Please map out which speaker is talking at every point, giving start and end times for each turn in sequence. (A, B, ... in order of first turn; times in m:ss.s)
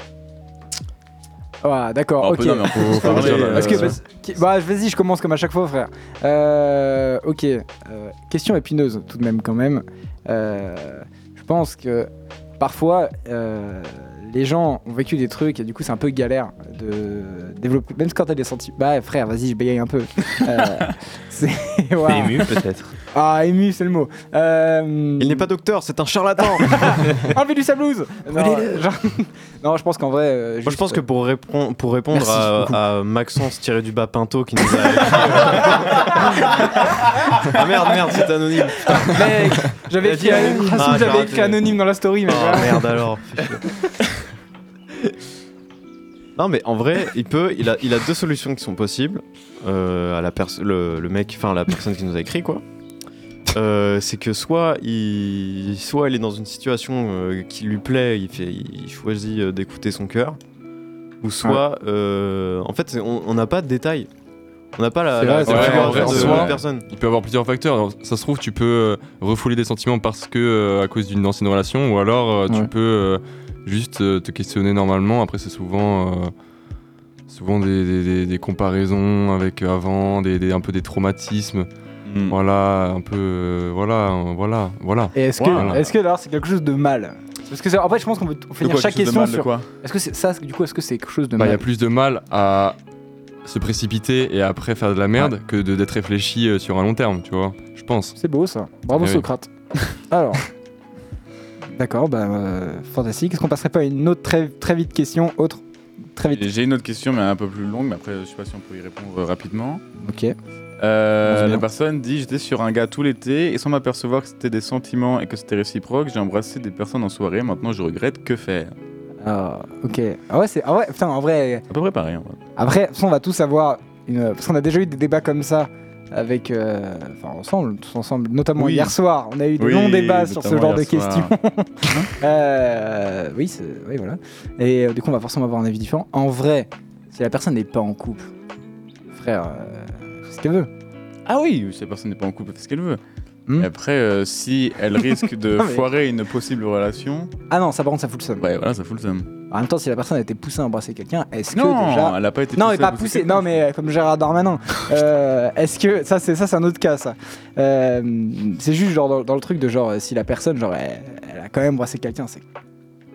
0:01.6-0:22.6 A
0:02.2-0:04.0 B
0:02.7-0:04.0 C
0:22.0-0:23.0 D
0:23.1-0:25.5 A
0:25.2-0:27.0 E
0:26.6-0:31.0 A
0:28.4-0:28.6 D
0:30.6-0:36.8 E
0:32.1-0:32.5 A
0:37.4-0:39.4 E
0:38.8-0:43.0 A
0:40.0-0:41.0 D
0:40.5-0:43.6 E
0:46.4-0:52.6 E
0:53.5-1:00.4 E
1:01.2-1:04.1 E
1:04.8-1:06.9 E
1:05.2-1:06.5 A
1:05.4-1:06.6 B
1:05.5-1:16.3 C
1:17.3-1:21.7 C
1:22.0-1:22.4 B
1:22.3-1:25.9 C
1:25.1-1:31.6 A
1:25.4-1:25.8 B
1:28.6-1:29.7 B
1:31.4-1:32.8 C
1:33.4-1:38.2 C
1:38.2-1:40.4 A
1:39.0-1:39.3 C
1:41.7-1:45.6 A
1:46.2-1:46.5 A
1:46.3-1:49.8 B
1:50.0-1:50.4 A
1:50.8-1:58.8 B
1:51.2-1:51.6 A
1:59.2-2:01.6 A
2:01.7-2:02.4 B
2:02.6-2:18.3 A
2:08.6-2:09.0 B
2:09.6-2:11.4 B
2:11.9-2:12.1 B
2:19.1-2:20.7 A
2:21.3-2:23.0 B
2:23.5-2:27.3 B
2:25.6-2:25.8 A
2:27.5-2:28.4 A
2:28.4-2:29.3 B
2:29.5-2:42.4 A
2:31.5-2:33.6 B